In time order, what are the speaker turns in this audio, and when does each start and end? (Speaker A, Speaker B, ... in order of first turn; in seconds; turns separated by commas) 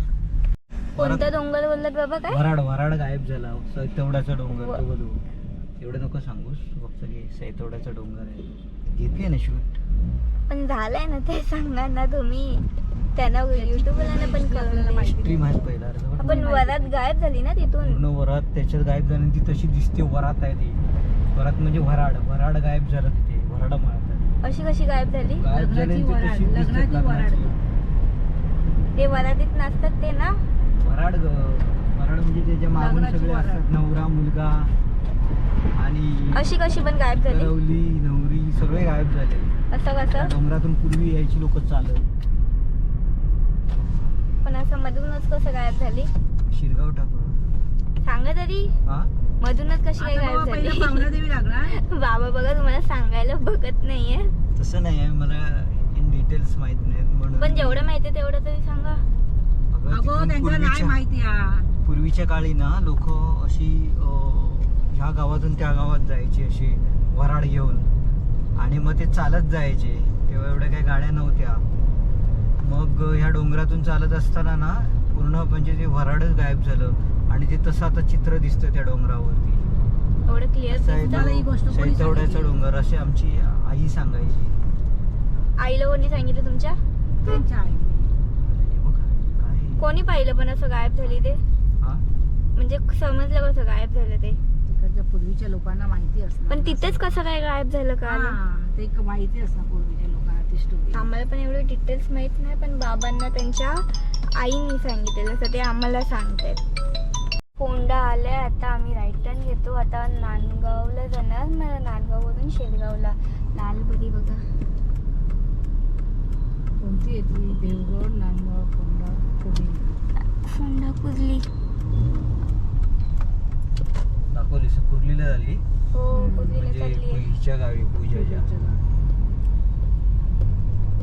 Speaker A: 0.9-1.3, Speaker B: 1.0-2.4, Speaker A: 2.3-5.2, Speaker B: 4.5-4.8, Speaker A: 5.8-9.8, Speaker B: 10.5-12.6, Speaker B: 13.2-15.2, Speaker C: 13.5-17.0, Speaker A: 15.2-16.5, Speaker B: 16.2-18.0, Speaker A: 17.8-20.8, Speaker A: 21.3-24.4, Speaker B: 24.4-25.5, Speaker A: 25.4-27.6, Speaker C: 25.5-27.6, Speaker B: 29.0-30.4, Speaker A: 30.8-34.8, Speaker C: 32.8-33.6, Speaker A: 35.8-39.5, Speaker B: 36.3-37.5, Speaker B: 39.7-40.3, Speaker A: 40.1-42.0, Speaker B: 44.4-46.1, Speaker A: 46.5-47.4, Speaker B: 48.0-48.7, Speaker A: 48.9-49.1, Speaker B: 49.4-51.1, Speaker C: 50.0-51.7, Speaker B: 51.7-54.3, Speaker A: 54.5-57.9, Speaker B: 57.4-59.0, Speaker A: 59.7-61.0, Speaker C: 59.9-61.6, Speaker A: 61.8-67.9, Speaker A: 68.6-71.6, Speaker A: 72.6-79.7, Speaker B: 80.3-81.3, Speaker A: 80.7-84.6, Speaker C: 81.0-82.6, Speaker B: 85.6-86.8, Speaker C: 87.2-88.1, Speaker A: 88.4-90.1, Speaker B: 89.8-91.4, Speaker B: 92.6-94.4, Speaker C: 94.7-97.2, Speaker B: 96.5-98.4, Speaker C: 98.1-101.1, Speaker B: 100.9-106.6, Speaker B: 107.6-114.4, Speaker C: 116.8-119.8, Speaker B: 120.4-121.5, Speaker A: 124.3-125.6, Speaker B: 125.9-127.3, Speaker C: 126.2-126.6, Speaker A: 126.5-128.7, Speaker C: 128.1-128.8